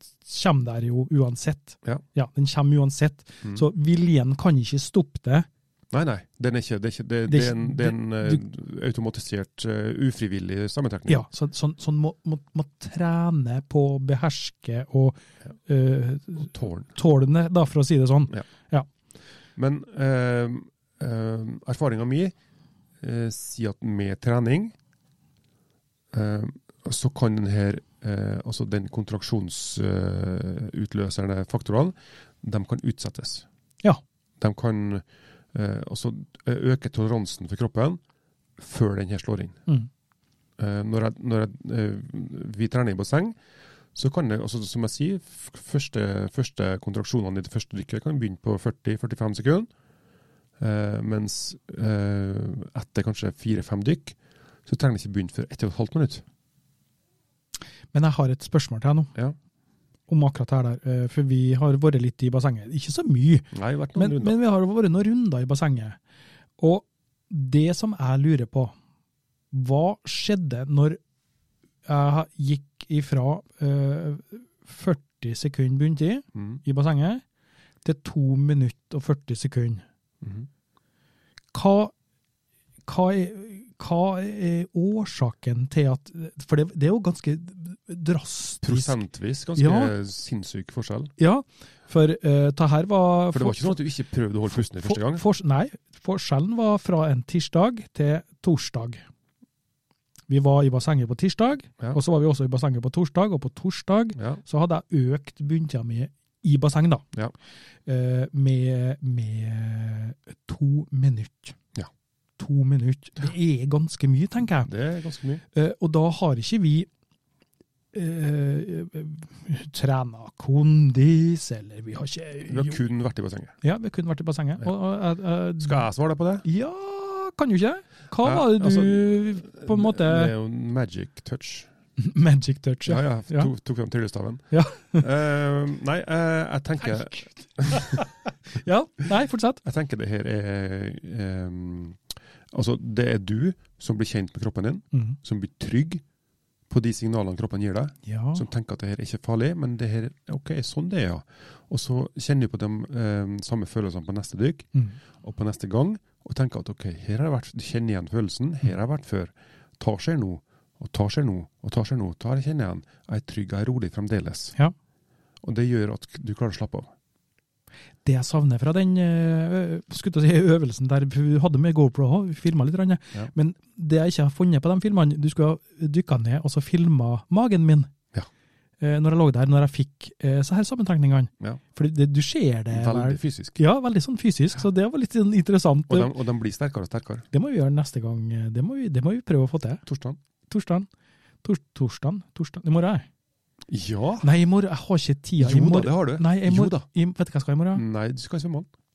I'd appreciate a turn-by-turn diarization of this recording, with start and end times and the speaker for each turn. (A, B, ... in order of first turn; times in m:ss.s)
0:00.2-0:05.5 A
0:05.9-0:11.2 B
0:07.3-0:08.4 A
0:11.1-0:18.9 A
0:16.5-0:16.9 B
0:19.6-0:22.3 B
0:23.0-0:24.7 B
0:26.1-0:33.4 B
0:34.4-0:38.0 B
0:38.6-0:39.6 B
0:40.6-0:43.4 B
0:43.9-0:49.7 B
0:50.6-0:56.2 B
0:57.9-0:59.1 A
1:00.1-1:06.0 A
1:03.5-1:04.4 B
1:06.6-1:08.7 A
1:09.5-1:11.0 A
1:11.8-1:17.2 A
1:16.3-1:16.6 B
1:17.8-1:19.8 A
1:20.2-1:20.5 B
1:21.5-1:21.9 A
1:22.9-1:29.0 A
1:28.6-1:31.1 B
1:29.6-1:29.9 A
1:31.2-1:33.8 A
1:33.3-1:35.2 B
1:34.6-1:39.0 A
1:40.3-1:47.0 A
1:47.8-1:51.6 A
1:52.4-1:54.7 A
1:54.6-1:55.4 B
1:55.5-1:56.9 A
1:57.9-2:02.8 A
2:02.5-2:03.5 B
2:03.6-2:05.8 A
2:05.6-2:06.4 B
2:06.4-2:10.3 A
2:08.2-2:11.7 B
2:12.0-2:13.5 A
2:12.8-2:18.0 B
2:14.5-2:15.0 A
2:16.9-2:19.6 A
2:19.6-2:26.0 B
2:26.7-2:34.7 B
2:28.0-2:28.4 A
2:35.2-2:44.5 B
2:45.4-2:46.9 B
2:48.0-2:57.9 A
2:58.8-3:06.1 A
3:02.7-3:03.6 B
3:05.9-3:07.2 B
3:07.3-3:09.8 A
3:09.8-3:10.2 B
3:10.5-3:10.9 A
3:11.4-3:13.0 A
3:13.7-3:14.3 B
3:14.2-3:17.8 A
3:15.4-3:16.8 B
3:17.7-3:18.7 B